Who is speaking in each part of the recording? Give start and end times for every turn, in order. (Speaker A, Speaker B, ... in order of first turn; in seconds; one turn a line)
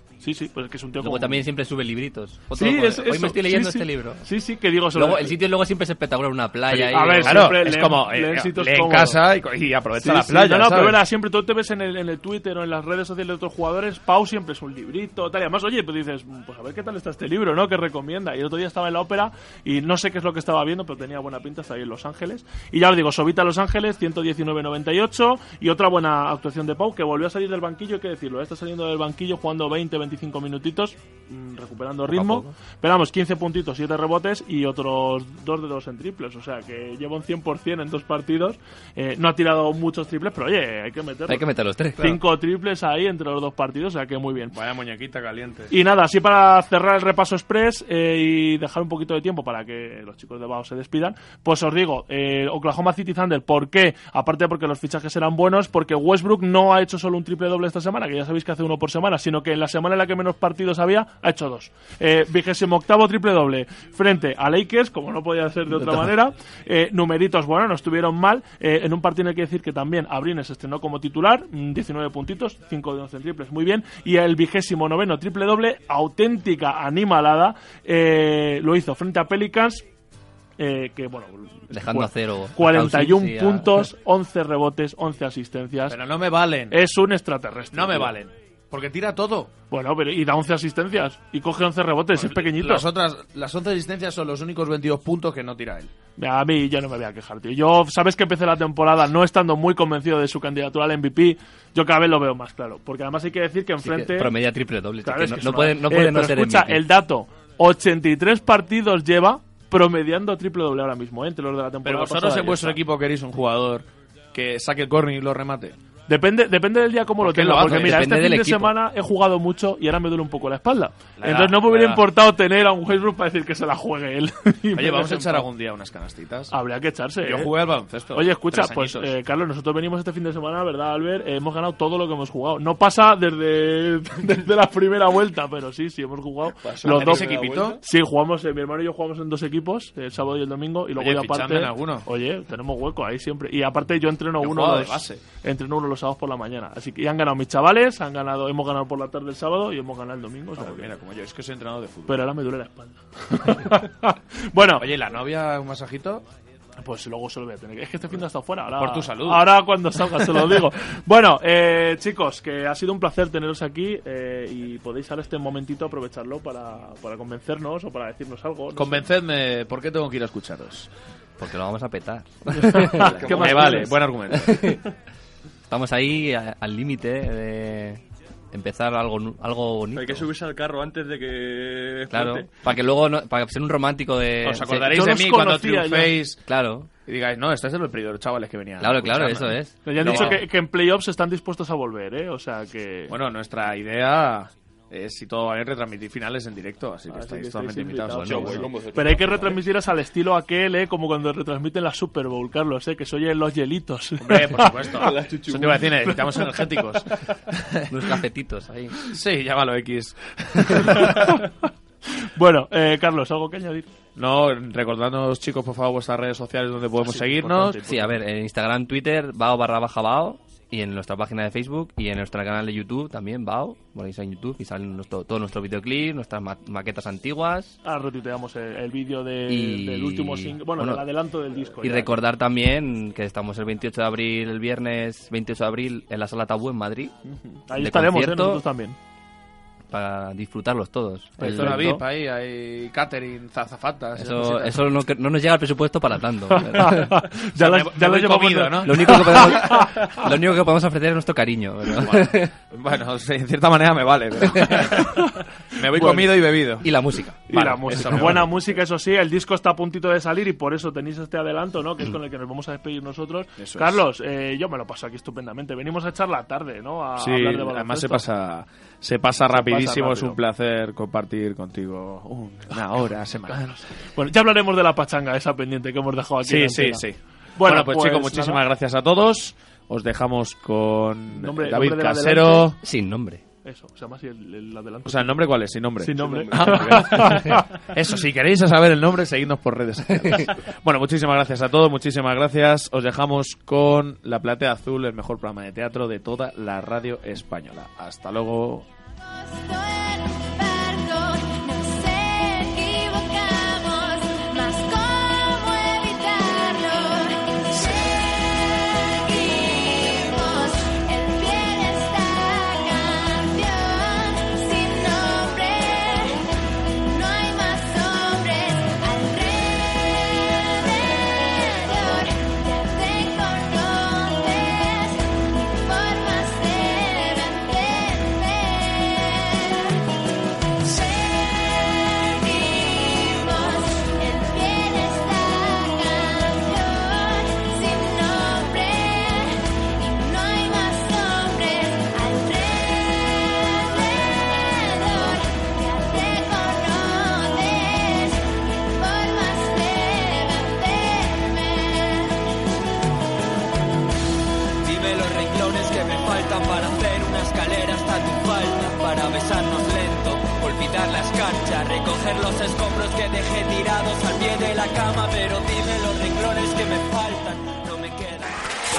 Speaker A: 0.2-1.4
Speaker B: 1.0-4.2
Speaker A: 2.5-5.4
Speaker B: 4.9-7.6
Speaker A: 6.7-9.2
Speaker C: 7.2-11.0
Speaker A: 10.0-41.4
Speaker B: 32.1-32.5
Speaker B: 41.3-42.2
Speaker A: 42.0-44.5
Speaker C: 44.5-45.7
Speaker A: 45.7-79.8
Speaker B: 65.8-66.1
Speaker A: 80.6-86.0
Speaker B: 81.7-83.9
Speaker C: 85.9-86.8
Speaker A: 86.7-88.1
Speaker C: 87.7-89.5
Speaker A: 89.7-92.8
Speaker C: 92.1-95.9
Speaker A: 96.2-104.3
Speaker B: 103.8-106.8
Speaker A: 105.0-112.8
Speaker C: 111.8-115.8
Speaker A: 116.1-125.5
Speaker C: 117.2-118.1
Speaker B: 117.6-118.7
Speaker C: 121.2-122.0
Speaker C: 124.7-126.5
Speaker A: 126.5-127.5
Speaker C: 127.2-129.1
Speaker A: 128.1-150.9
Speaker D: 136.6-137.8
Speaker C: 136.8-137.8
Speaker C: 140.9-142.1
Speaker C: 144.4-145.2
Speaker C: 150.6-152.3
Speaker A: 152.1-154.9
Speaker C: 154.8-156.2
Speaker A: 156.8-169.1
Speaker C: 158.8-160.6
Speaker C: 168.7-170.9
Speaker B: 171.4-173.1
Speaker A: 172.5-173.9
Speaker D: 173.0-173.9
Speaker C: 173.2-174.8
Speaker B: 174.3-174.8
Speaker B: 175.7-178.0
Speaker B: 178.5-180.2
Speaker D: 179.9-182.6
Speaker B: 182.1-184.9
Speaker C: 184.4-186.4
Speaker A: 184.9-186.2
Speaker B: 186.5-186.9
Speaker C: 187.1-190.4
Speaker B: 188.8-190.4
Speaker A: 189.8-193.1
Speaker C: 193.1-198.7
Speaker A: 197.1-205.1
Speaker B: 198.1-198.5
Speaker D: 198.2-199.6
Speaker C: 204.2-208.0
Speaker D: 204.9-206.4
Speaker B: 207.9-209.0
Speaker C: 209.1-211.4
Speaker A: 210.7-211.5
Speaker A: 212.2-213.9
Speaker C: 214.2-217.8
Speaker A: 217.0-218.1
Speaker B: 217.8-227.8
Speaker A: 227.8-232.1
Speaker B: 229.5-231.0
Speaker B: 231.8-237.1
Speaker A: 237.3-238.9
Speaker B: 237.8-238.6
Speaker B: 239.9-241.9
Speaker A: 241.4-242.0
Speaker C: 241.4-244.8
Speaker B: 244.2-247.2
Speaker A: 246.5-250.2
Speaker C: 247.5-249.8
Speaker B: 248.8-252.5
Speaker C: 251.8-256.9
Speaker B: 254.5-254.9
Speaker B: 256.0-256.3
Speaker B: 256.8-258.0
Speaker A: 257.5-268.2
Speaker C: 257.5-258.7
Speaker C: 263.6-264.0
Speaker C: 267.2-273.8
Speaker A: 269.5-270.4
Speaker A: 273.5-277.0
Speaker C: 276.4-282.8
Speaker A: 277.6-278.6
Speaker A: 281.3-282.7
Speaker B: 282.8-283.4
Speaker A: 283.6-287.7
Speaker C: 285.0-298.9
Speaker D: 286.1-287.6
Speaker E: 299.2-330.0
Speaker E: 330.8-352.4
Speaker F: 354.8-368.5